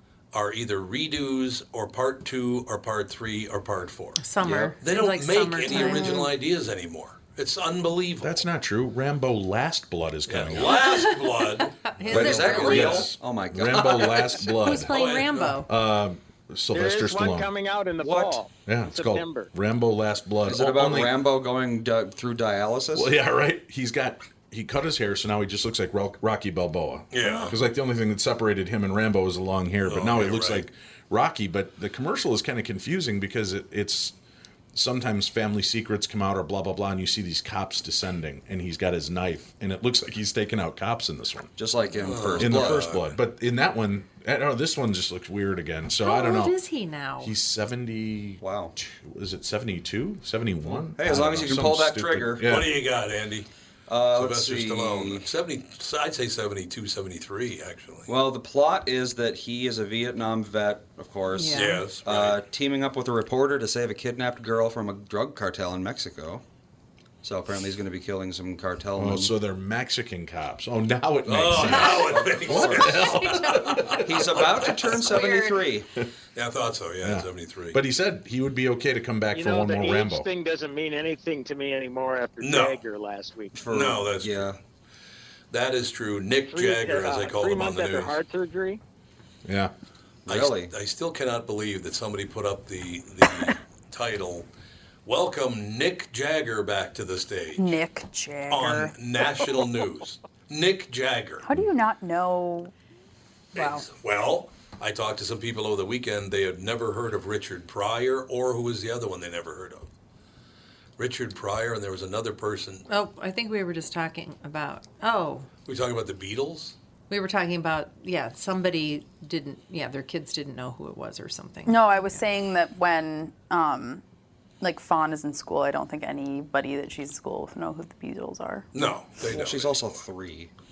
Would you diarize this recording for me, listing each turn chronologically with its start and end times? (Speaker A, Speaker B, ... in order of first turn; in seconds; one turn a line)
Speaker A: 0.3-4.2
Speaker B: 4.2-6.3
Speaker C: 4.4-4.7
Speaker A: 4.8-8.4
Speaker D: 8.2-10.8
Speaker A: 10.3-12.9
Speaker B: 10.7-13.1
Speaker C: 12.1-14.5
Speaker D: 12.1-15.0
Speaker B: 14.5-15.7
Speaker A: 14.9-15.5
Speaker D: 15.5-17.5
Speaker E: 16.7-19.5
Speaker C: 18.0-18.4
Speaker D: 18.7-21.2
Speaker C: 20.5-23.1
Speaker D: 22.9-34.2
Speaker A: 27.1-27.6
Speaker B: 27.2-27.5
Speaker A: 29.9-30.7
Speaker D: 34.7-41.5
Speaker C: 41.6-42.9
Speaker A: 42.0-43.2
Speaker D: 42.4-46.6
Speaker B: 46.0-47.3
Speaker D: 47.2-52.8
Speaker C: 48.4-48.8
Speaker C: 50.7-52.6
Speaker A: 52.4-53.5
Speaker C: 53.9-55.3
Speaker A: 54.1-58.1
Speaker C: 58.1-66.4
Speaker B: 61.3-61.8
Speaker A: 61.5-62.4
Speaker C: 67.2-69.3
Speaker D: 69.0-74.7
Speaker A: 71.3-74.8
Speaker C: 71.6-73.1
Speaker C: 74.0-75.9
Speaker B: 75.1-75.6
Speaker A: 76.3-77.8
Speaker D: 77.0-80.3
Speaker E: 79.3-83.6
Speaker A: 82.4-82.8
Speaker C: 83.5-84.6
Speaker A: 83.7-84.5
Speaker A: 85.5-88.2
Speaker E: 86.5-88.8
Speaker D: 89.5-89.7
Speaker C: 90.3-90.7
Speaker A: 90.3-94.5
Speaker A: 95.0-97.8
Speaker F: 97.6-98.9
Speaker A: 98.5-101.5
Speaker F: 101.4-102.7
Speaker A: 103.5-109.9
Speaker F: 103.5-103.8
Speaker A: 111.0-112.8
Speaker B: 112.9-115.5
Speaker A: 115.7-116.8
Speaker B: 117.1-122.2
Speaker F: 121.7-124.0
Speaker F: 124.6-128.7
Speaker A: 128.7-129.9
Speaker C: 129.2-130.5